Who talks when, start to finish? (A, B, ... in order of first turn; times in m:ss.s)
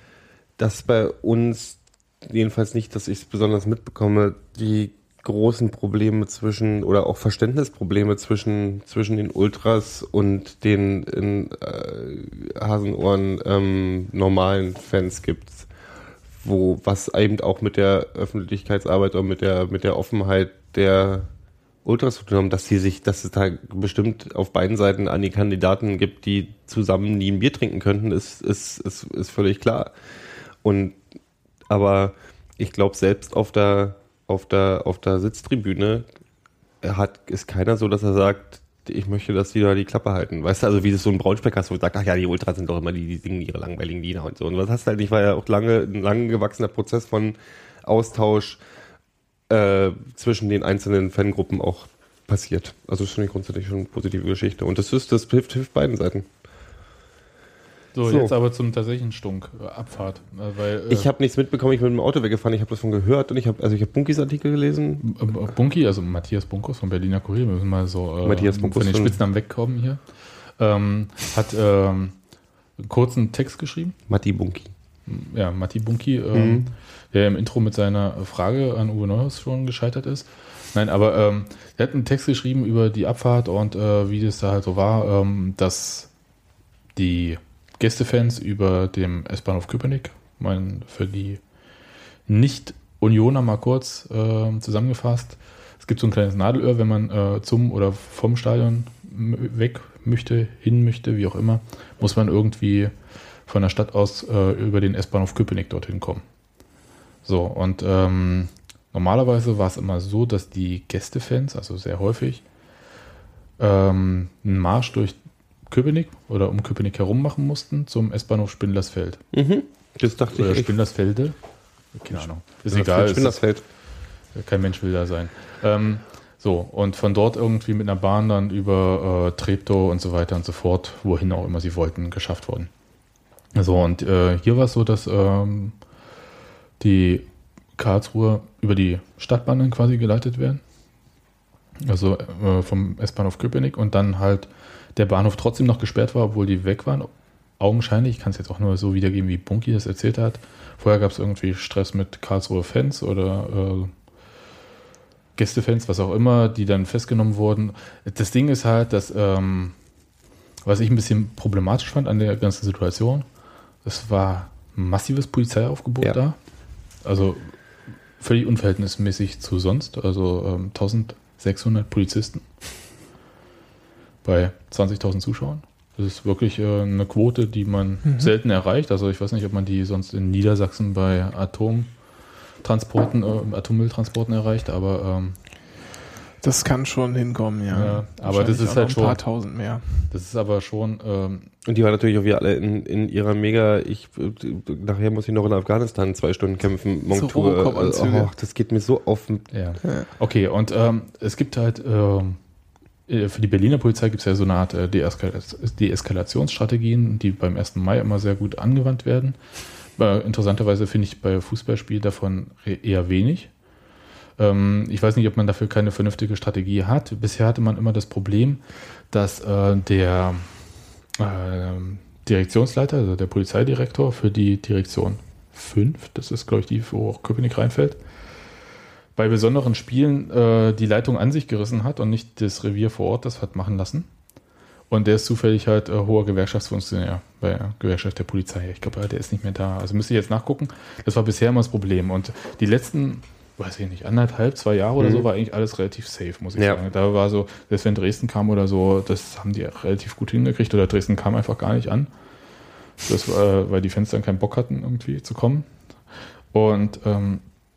0:00.6-0:15.7 A
0:16.4-0:21.3 A
0:21.8-0:29.9 A
0:30.6-0:31.0 A
0:31.7-0:36.1 A
0:36.8-0:48.6 A
0:49.5-0:56.3 A
0:58.0-1:01.1 B
0:58.0-0:58.3 A
1:00.9-1:05.0 A
1:05.0-1:10.1 B
1:08.2-1:09.2 A
1:10.6-1:12.2 B
1:12.8-1:14.0 B
1:14.1-1:14.7 A
1:15.1-1:26.1 B
1:16.3-1:16.7 A
1:27.0-1:31.4 B
1:32.3-1:42.9 B
1:43.5-1:46.2 B
1:47.2-1:52.4 B
1:53.6-1:55.2 B
1:55.7-1:59.2 B
1:59.3-2:00.7 A
2:00.3-2:01.4 B
2:01.9-2:03.4 B
2:02.1-2:03.6 A
2:04.4-2:12.7 B
2:13.6-2:15.8 B
2:16.8-2:20.6 B
2:21.8-2:33.9 B
2:35.4-2:39.8 B
2:40.6-2:43.3 B
2:43.8-2:46.4 B
2:47.0-2:47.5 B
2:48.2-2:52.5 B
2:54.2-3:01.9 B
2:58.0-2:58.3 C
3:02.6-3:05.4 B
3:06.4-3:10.1 C
3:07.7-3:09.2 B
3:10.1-3:11.5 B
3:11.6-3:19.5 A
3:17.1-3:18.3 C
3:19.5-3:22.4 B
3:19.8-3:20.1 C
3:23.1-3:29.4 B
3:30.0-3:33.5 B
3:34.4-3:40.5 B
3:41.2-3:48.0 B
3:49.2-3:54.1 B
3:54.9-4:12.1 B
4:05.0-4:05.3 A
4:06.6-4:06.8 A
4:13.0-4:15.7 B
4:16.5-4:17.4 B